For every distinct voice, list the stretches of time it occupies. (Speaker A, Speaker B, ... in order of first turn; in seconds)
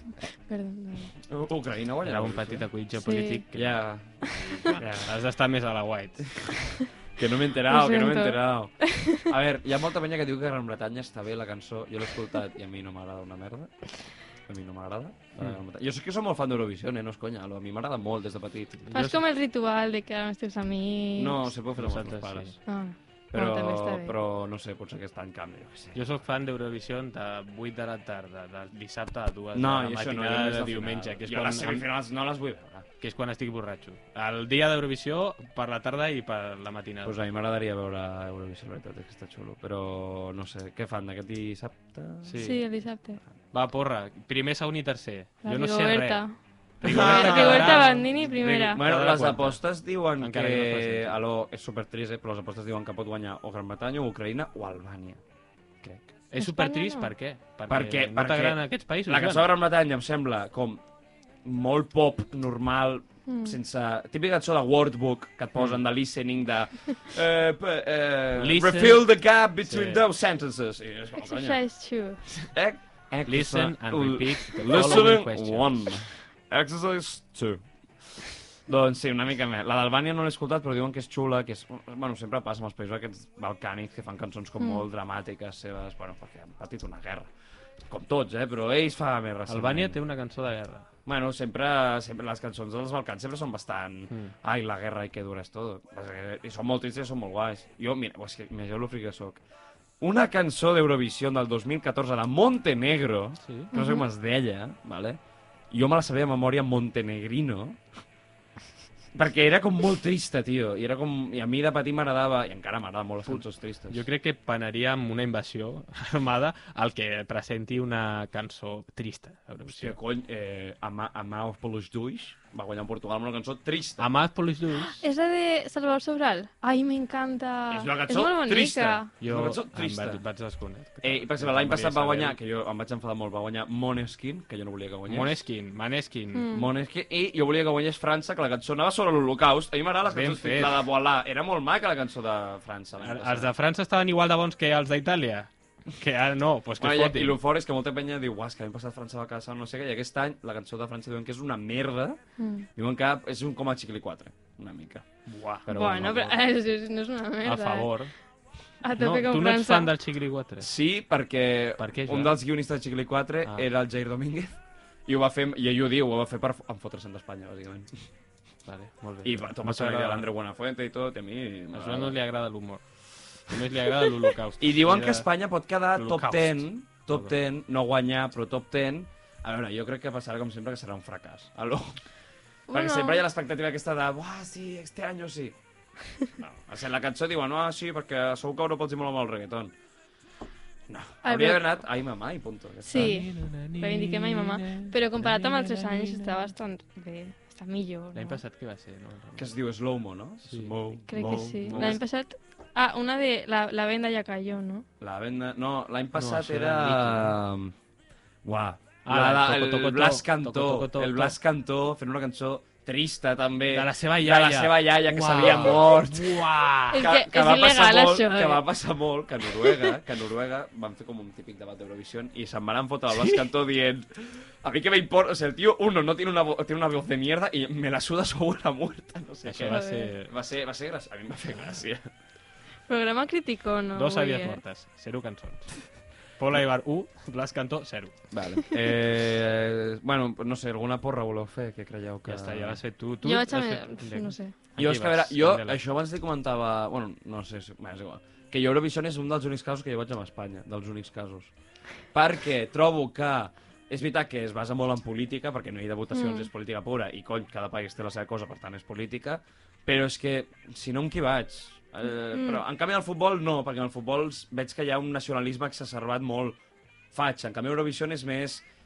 Speaker A: 0.2-1.1, 3.0-3.4, 7.7-9.3, 18.9-21.5, 22.7-24.2, 42.4-43.2, 45.4-48.8, 56.4-57.1, 63.3-63.6, 71.2-72.2, 84.6-84.8, 103.7-104.0, 124.8-129.1, 136.3-136.7, 152.4-152.7, 155.7-157.9, 158.8-159.9, 182.7-183.2, 191.2-191.7, 192.8-198.4, 201.1-204.8, 216.9-218.7, 229.7-230.1, 232.9-234.6, 243.2-244.5, 256.1-256.5, 262.3-262.6
Speaker B: 1.3-2.7, 3.5-5.2, 7.2-13.8, 14.5-18.9, 21.2-22.6, 23.3-26.0, 29.5-32.9, 37.0-42.4, 46.8-55.2, 57.7-60.8, 61.4-71.6, 72.5-77.6, 78.2-87.3, 87.9-90.0, 91.1-99.4, 100.0-105.2, 105.7-107.8, 109.1-114.0, 119.7-124.1, 127.7-130.2, 131.0-135.4, 136.5-143.5, 146.8-152.2, 152.8-155.1, 155.8-156.3, 160.6-167.9, 169.2-172.2, 174.6-182.0, 182.7-185.6, 186.4-189.7, 190.9-193.2, 199.4-202.0, 205.0-207.7, 208.4-232.1, 238.3-242.8, 244.8-251.5, 252.1-266.6, 267.1-268.7
Speaker C: 2.0-6.6, 18.9-19.2, 21.8-22.6, 25.9-31.9, 33.0-37.2, 42.2-42.6, 43.5-46.3, 46.8-48.2, 48.7-51.2, 56.3-59.5, 65.6-65.8, 68.4-69.1, 69.6-70.0, 73.3-76.1, 89.5-90.9, 103.4-103.7, 113.3-120.0, 124.0-125.0, 129.2-132.4, 135.1-136.5, 140.1-140.9, 143.0-147.4, 155.3-156.4, 157.4-158.1, 159.0-160.7, 161.8-162.4, 168.7-170.3, 171.7-172.8, 173.4-175.3, 175.9-177.3, 192.9-196.5, 198.2-199.5, 200.5-202.0, 206.2-207.4, 209.1-211.4, 213.7-217.0, 229.4-230.3, 233.9-238.2, 242.2-245.8